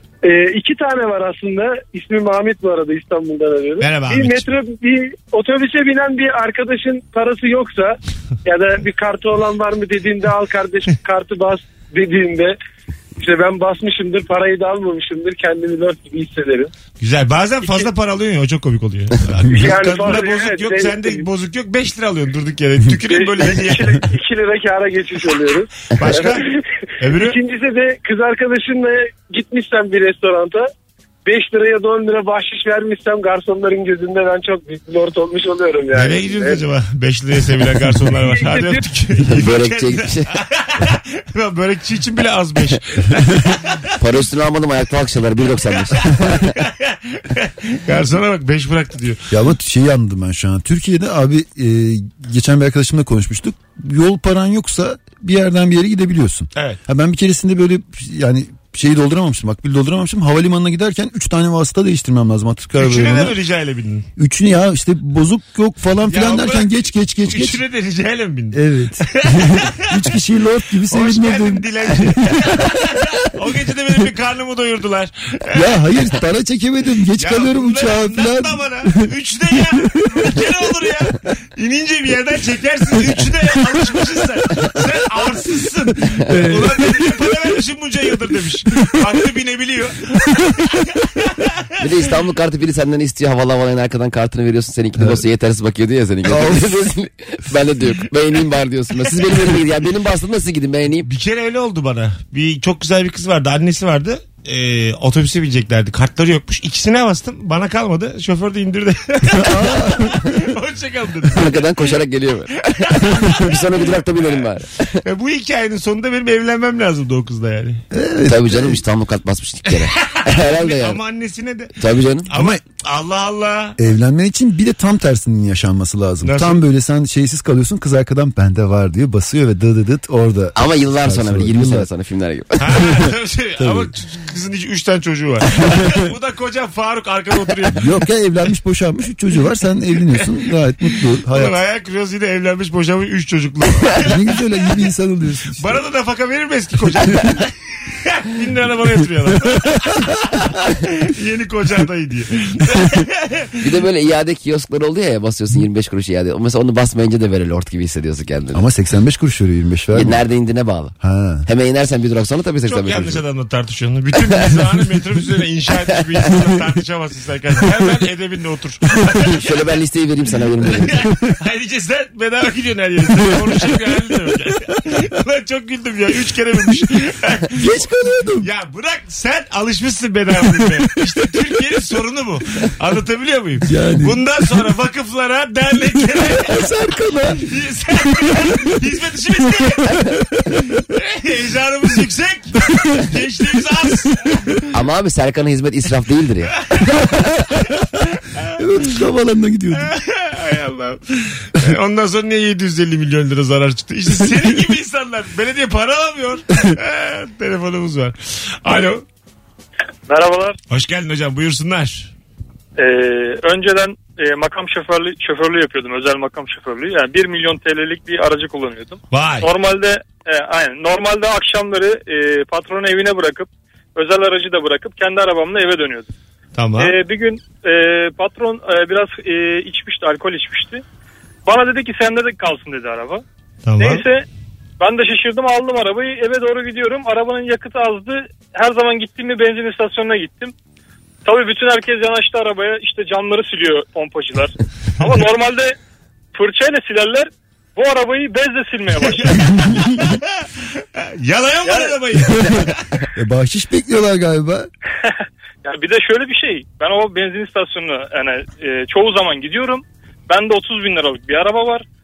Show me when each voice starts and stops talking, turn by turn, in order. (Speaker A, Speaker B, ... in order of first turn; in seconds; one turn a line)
Speaker A: 0.2-12.6
Speaker B: 3.8-4.5
Speaker A: 13.2-16.7
Speaker B: 17.0-24.1
Speaker A: 19.5-21.3
Speaker A: 23.1-30.7
Speaker B: 25.9-26.5
Speaker B: 27.0-27.4
Speaker A: 31.3-36.6
Speaker B: 35.9-43.9
Speaker A: 38.3-38.8
Speaker C: 39.2-40.3
Speaker C: 44.0-46.6
Speaker B: 45.7-49.2
Speaker D: 49.3-63.4
Speaker B: 62.8-64.1
Speaker D: 64.2-67.6
Speaker B: 66.1-70.1
Speaker D: 68.5-73.1
Speaker B: 70.9-75.8
Speaker D: 75.5-79.1
Speaker B: 77.2-91.6
Speaker D: 79.7-80.3
Speaker D: 86.2-87.3
Speaker C: 91.8-101.1
Speaker D: 95.0-95.2
Speaker D: 96.2-96.8
Speaker B: 101.0-112.0
Speaker D: 109.3-110.4
Speaker C: 111.3-115.0
Speaker B: 112.7-114.5
Speaker B: 115.0-117.8
Speaker D: 117.9-118.8
Speaker C: 118.3-121.0
Speaker B: 119.7-123.8
Speaker C: 121.8-122.3
Speaker D: 122.3-122.6
Speaker D: 123.8-131.9
Speaker B: 126.2-126.6
Speaker C: 130.6-133.0
Speaker B: 132.6-137.9
Speaker D: 133.6-133.9
Speaker D: 135.6-136.0
Speaker D: 137.7-141.6
Speaker B: 141.3-144.4
Speaker D: 144.0-145.8
Speaker B: 145.6-153.6
Speaker C: 153.6-158.6
Speaker D: 158.5-160.2
Speaker C: 159.9-160.9
Speaker D: 161.0-161.5
Speaker C: 161.5-163.2
Speaker B: 162.7-169.4
Speaker C: 164.2-164.6
Speaker C: 169.3-171.1
Speaker B: 170.7-177.8
Speaker D: 177.5-178.5
Speaker B: 178.4-186.6
Speaker D: 183.6-184.6
Speaker D: 186.1-187.5
Speaker B: 187.4-194.7
Speaker D: 188.1-188.7
Speaker D: 189.6-190.1
Speaker C: 194.7-196.6
Speaker D: 198.6-199.9
Speaker B: 199.7-209.1
Speaker E: 210.1-210.6
Speaker B: 210.7-212.1
Speaker E: 212.8-226.1
Speaker B: 219.1-219.5
Speaker B: 226.6-226.9
Speaker E: 226.8-230.8
Speaker E: 231.5-233.2
Speaker B: 233.7-234.0
Speaker E: 233.8-234.3
Speaker E: 234.8-240.5
Speaker E: 241.2-245.8
Speaker E: 246.3-249.7
Speaker B: 249.6-250.2
Speaker B: 251.0-252.8
Speaker E: 251.7-252.0
Speaker D: 253.2-254.7
Speaker E: 255.6-261.9